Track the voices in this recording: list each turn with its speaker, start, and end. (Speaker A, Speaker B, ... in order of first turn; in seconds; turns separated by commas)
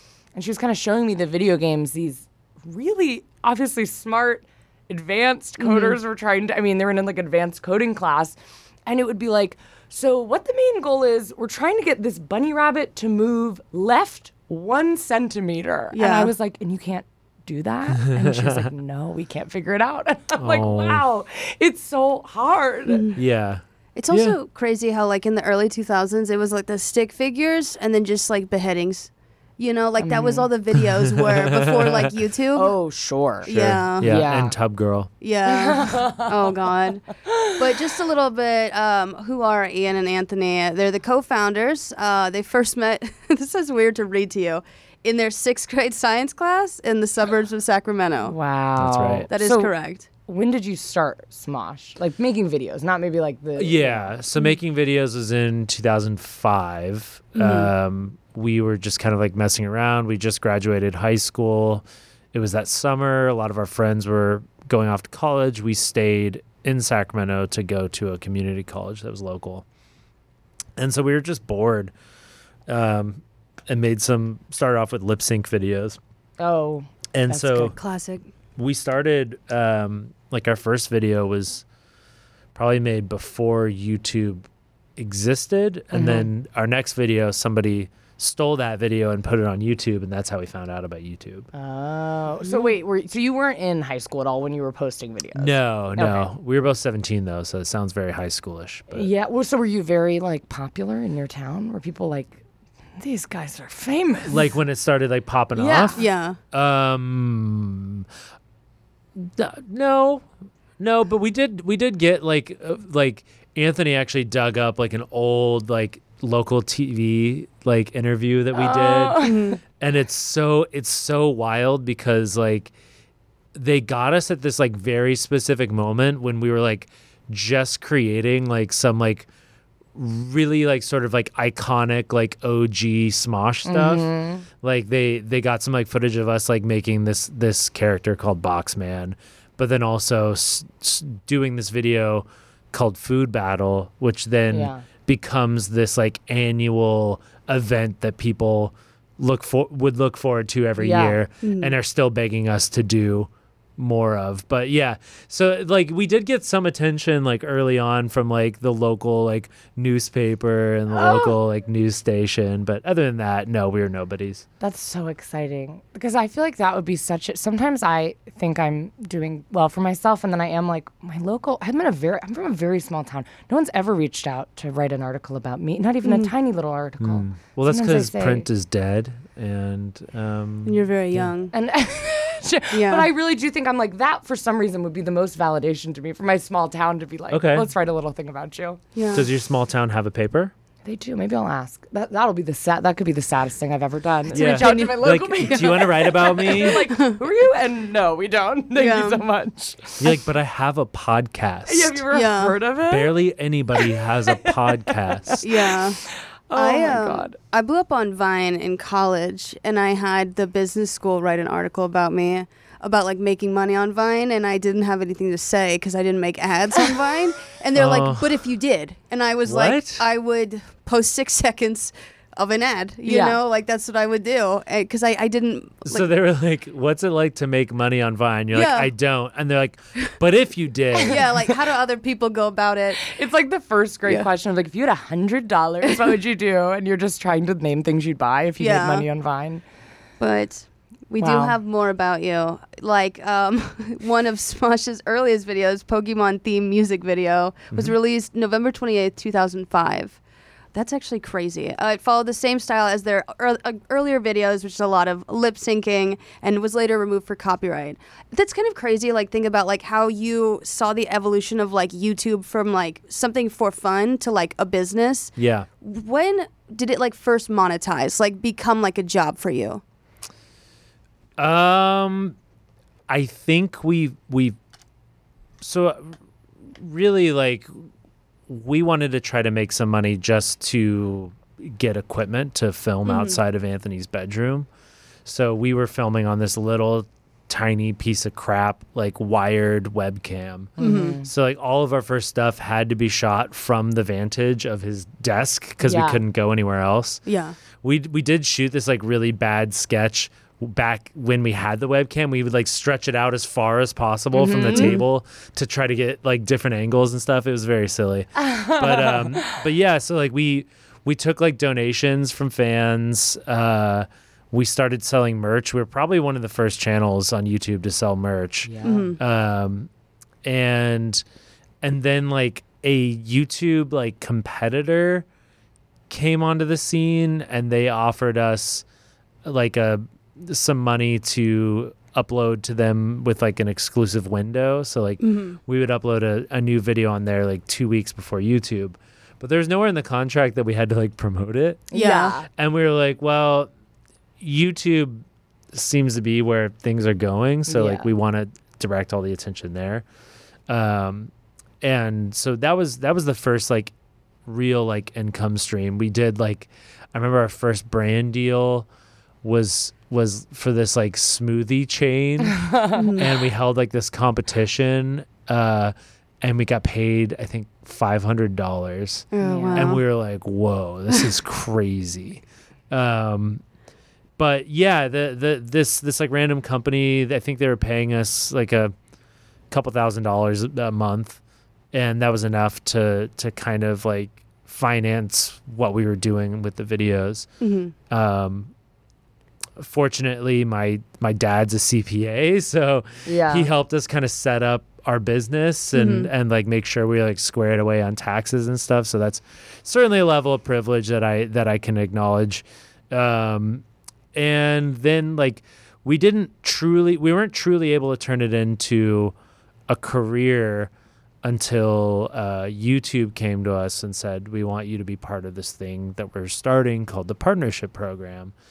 Speaker A: 0.3-23.1, Speaker B: 5.6-6.0, Speaker B: 15.9-16.3, Speaker C: 18.0-18.7, Speaker C: 20.4-21.0, Speaker B: 22.9-23.2, Speaker C: 23.1-24.4, Speaker B: 23.9-32.7, Speaker A: 30.0-30.5, Speaker C: 30.7-32.1, Speaker A: 32.5-34.5, Speaker B: 33.4-34.1, Speaker C: 33.5-35.1, Speaker B: 35.2-48.3, Speaker A: 35.5-36.4, Speaker A: 37.2-37.6, Speaker A: 48.2-49.7, Speaker C: 48.8-49.3, Speaker B: 49.3-50.1, Speaker A: 50.3-54.1, Speaker C: 53.6-69.6, Speaker B: 57.4-57.7, Speaker C: 70.8-71.9, Speaker C: 72.7-76.0, Speaker A: 76.4-77.7, Speaker C: 77.1-77.7, Speaker B: 77.7-78.2, Speaker C: 78.6-81.6, Speaker C: 82.5-84.4, Speaker C: 85.0-91.5, Speaker A: 85.9-86.3, Speaker A: 91.5-96.3, Speaker C: 95.3-99.1, Speaker A: 98.9-102.4, Speaker A: 103.0-104.5, Speaker C: 104.3-108.1, Speaker A: 105.5-106.0, Speaker B: 106.0-106.4, Speaker C: 109.2-110.3, Speaker C: 110.8-119.3, Speaker A: 118.5-119.6, Speaker B: 119.2-119.6, Speaker C: 119.8-122.7, Speaker C: 123.5-129.3, Speaker C: 129.9-134.1, Speaker A: 133.6-134.4, Speaker C: 134.6-164.4, Speaker A: 144.5-144.8, Speaker A: 150.8-151.2, Speaker B: 151.4-151.7, Speaker A: 160.9-161.3, Speaker A: 164.6-178.5, Speaker B: 176.0-176.3, Speaker C: 177.0-181.3, Speaker B: 180.7-181.5, Speaker A: 181.5-188.8, Speaker B: 182.7-183.1, Speaker C: 187.3-187.7, Speaker B: 188.9-189.3, Speaker C: 189.1-190.5, Speaker A: 190.8-200.2, Speaker C: 194.3-196.9, Speaker B: 194.3-195.0, Speaker B: 196.6-197.2, Speaker B: 198.8-199.2, Speaker C: 200.0-202.0, Speaker A: 201.7-203.1, Speaker B: 202.1-202.6, Speaker C: 202.9-205.4, Speaker A: 203.7-207.3, Speaker B: 205.4-206.0, Speaker B: 206.5-226.1, Speaker C: 217.7-218.3, Speaker C: 219.4-220.0, Speaker A: 223.0-223.4, Speaker C: 225.8-231.3, Speaker B: 228.5-228.9, Speaker A: 230.9-231.5, Speaker B: 231.1-233.1, Speaker A: 233.0-239.6, Speaker B: 238.6-239.1, Speaker B: 240.2-250.2, Speaker A: 241.2-241.6, Speaker B: 250.7-269.8, Speaker C: 265.4-265.7, Speaker C: 271.4-272.4, Speaker C: 273.1-274.6, Speaker C: 275.6-276.2, Speaker C: 276.7-277.7, Speaker C: 278.5-284.7, Speaker B: 283.1-283.4, Speaker C: 285.2-297.2, Speaker A: 290.8-291.3, Speaker B: 290.8-291.2, Speaker A: 295.8-296.2, Speaker B: 297.3-297.6, Speaker C: 297.8-319.9, Speaker A: 304.3-305.0, Speaker B: 304.6-305.0, Speaker A: 308.4-309.6, Speaker A: 318.6-319.2, Speaker B: 318.8-319.2, Speaker C: 320.4-321.2, Speaker C: 321.8-325.2, Speaker C: 326.1-328.8, Speaker C: 329.4-341.9, Speaker B: 335.2-335.6, Speaker A: 341.9-342.5, Speaker B: 341.9-342.4, Speaker C: 342.5-343.7, Speaker C: 344.4-350.0, Speaker A: 347.7-348.1, Speaker C: 350.7-353.9, Speaker C: 354.4-358.9, Speaker C: 359.4-373.6, Speaker A: 362.5-363.2, Speaker B: 362.9-363.3, Speaker B: 369.3-370.0, Speaker A: 369.4-369.9, Speaker C: 374.4-378.9, Speaker C: 379.7-381.4, Speaker C: 381.9-387.5, Speaker B: 387.6-387.9, Speaker C: 388.1-388.7, Speaker C: 389.8-409.3, Speaker A: 393.2-393.7, Speaker B: 395.9-396.3, Speaker C: 409.9-410.9, Speaker C: 411.4-418.5